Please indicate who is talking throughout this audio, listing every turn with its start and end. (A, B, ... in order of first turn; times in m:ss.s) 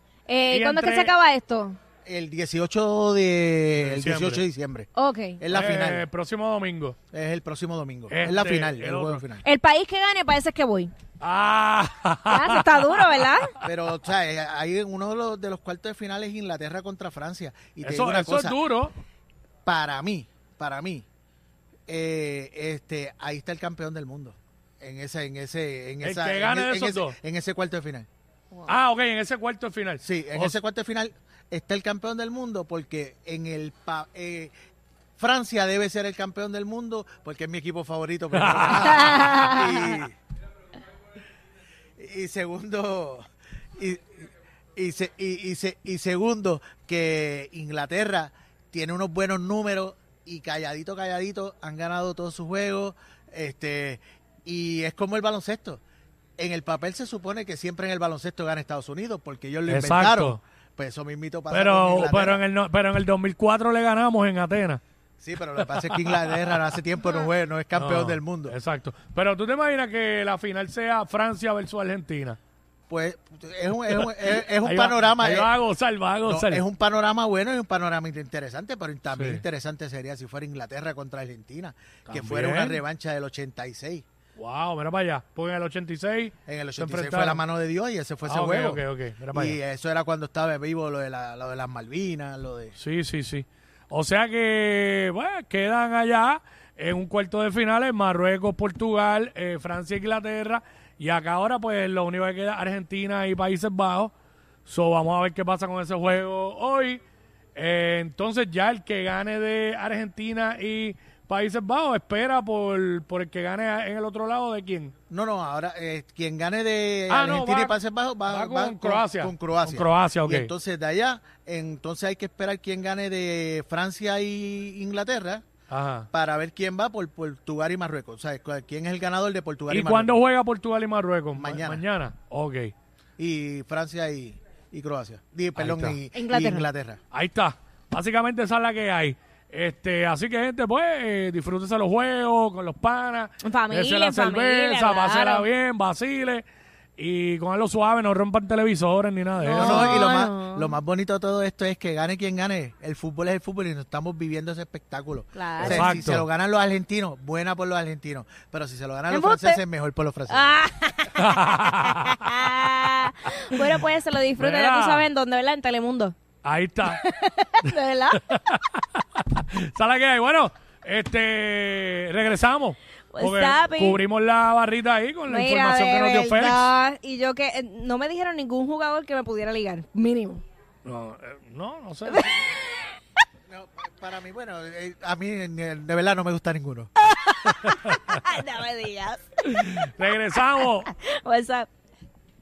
0:00.3-0:01.8 A
0:00.5-0:01.1 B
0:02.0-0:04.9 C
0:03.8-0:04.4 B
0:05.0-0:05.4 A
0:05.4-0:06.0 C
0:05.5-0:07.0 B
0:07.1-0:09.4 C
0:08.1-0:09.2 B
0:09.4-0:10.9 A
0:11.2-0:13.6 B
0:12.3-0:13.6 A
0:13.6-0:18.6 C
0:17.8-0:18.9 B
0:19.6-0:21.0 C
0:21.9-0:28.1 C
0:26.0-0:27.2 B
0:28.6-0:30.6 B
0:30.0-0:34.5 C
0:35.2-0:40.1 C
0:38.3-0:39.6 B
0:38.7-0:39.9 A
0:42.0-0:43.2 C
0:43.8-0:44.2 C
0:44.8-0:55.8 C
0:56.4-1:02.4 C
0:59.7-1:00.4 B
1:01.5-1:04.8 B
1:05.2-1:08.6 C
1:05.6-1:06.6 B
1:07.8-1:12.4 B
1:12.9-1:15.5 C
1:13.9-1:16.6 B
1:16.2-1:24.0 C
1:19.1-1:19.4 B
1:22.1-1:22.8 B
1:24.4-1:27.4 B
1:26.5-1:32.8 C
1:28.2-1:29.6 B
1:32.8-1:44.1 B
1:44.6-1:47.0 B
1:47.5-1:54.9 B
1:55.1-2:05.4 C
1:57.1-1:57.8 B
1:58.3-2:00.5 B
2:05.7-2:06.1 B
2:06.1-2:10.2 C
2:09.7-2:12.7 B
2:11.3-2:11.8 C
2:13.2-2:17.0 C
2:15.6-2:16.0 B
2:16.1-2:16.7 A
2:17.1-2:26.4 B
2:23.4-2:25.4 A
2:27.0-2:30.0 B
2:29.4-2:30.8 A
2:29.5-2:40.5 C
2:35.3-2:35.9 A
2:35.6-2:36.2 B
2:39.1-2:39.6 A
2:40.3-2:46.2 A
2:41.1-2:42.2 B
2:44.4-2:45.1 B
2:46.4-2:47.0 B
2:46.8-2:48.5 A
2:47.6-2:56.7 B
2:53.1-2:54.0 A
2:55.3-3:00.4 A
3:00.8-3:02.4 B
3:02.1-3:02.7 A
3:03.5-3:06.9 C
3:07.2-3:09.2 A
3:07.7-3:08.1 B
3:09.4-3:10.9 B
3:10.6-3:11.7 A